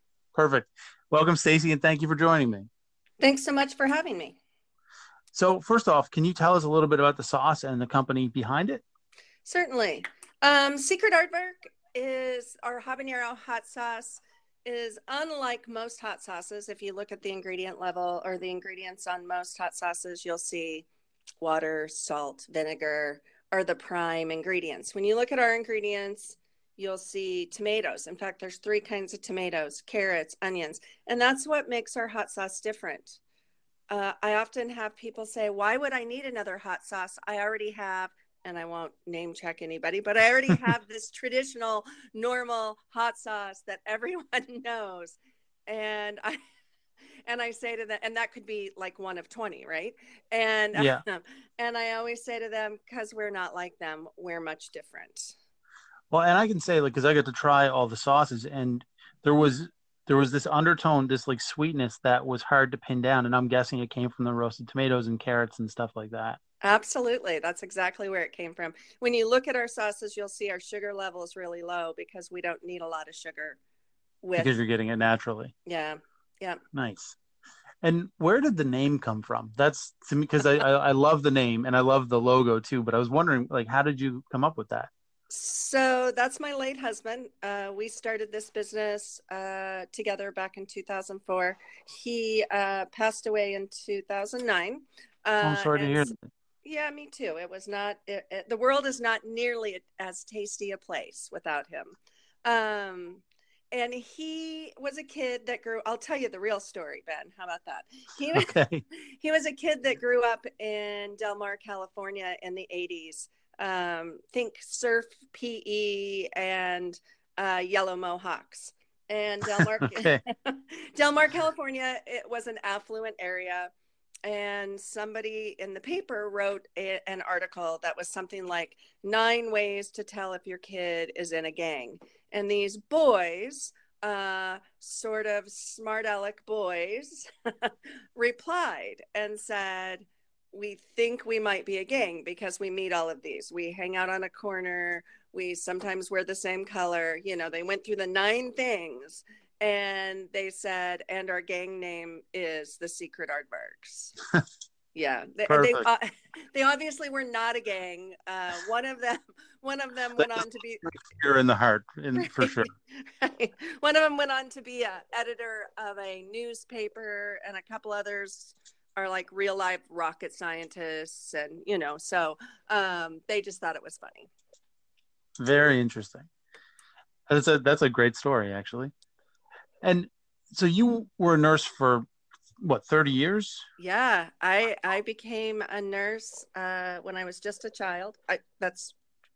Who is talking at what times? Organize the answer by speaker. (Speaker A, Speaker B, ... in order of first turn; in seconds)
Speaker A: 0.3-2.7, 5.3-8.8, 50.7-51.0, 56.1-66.4, 74.4-75.5, 76.7-77.2, 77.8-84.9, 95.4-96.2, 108.3-108.8, 119.6-120.2, 155.5-155.9, 160.2-162.7, 175.4-176.3, 177.3-178.9, 179.8-182.1, 182.6-183.7
Speaker B: 3.2-4.4, 9.4-20.9, 21.4-33.2, 33.9-46.4, 47.2-55.3, 66.6-73.6, 74.2-74.5, 75.7-76.6, 85.3-96.1, 96.6-123.7, 124.2-154.1, 154.9-160.8, 162.2-174.3, 183.8-188.9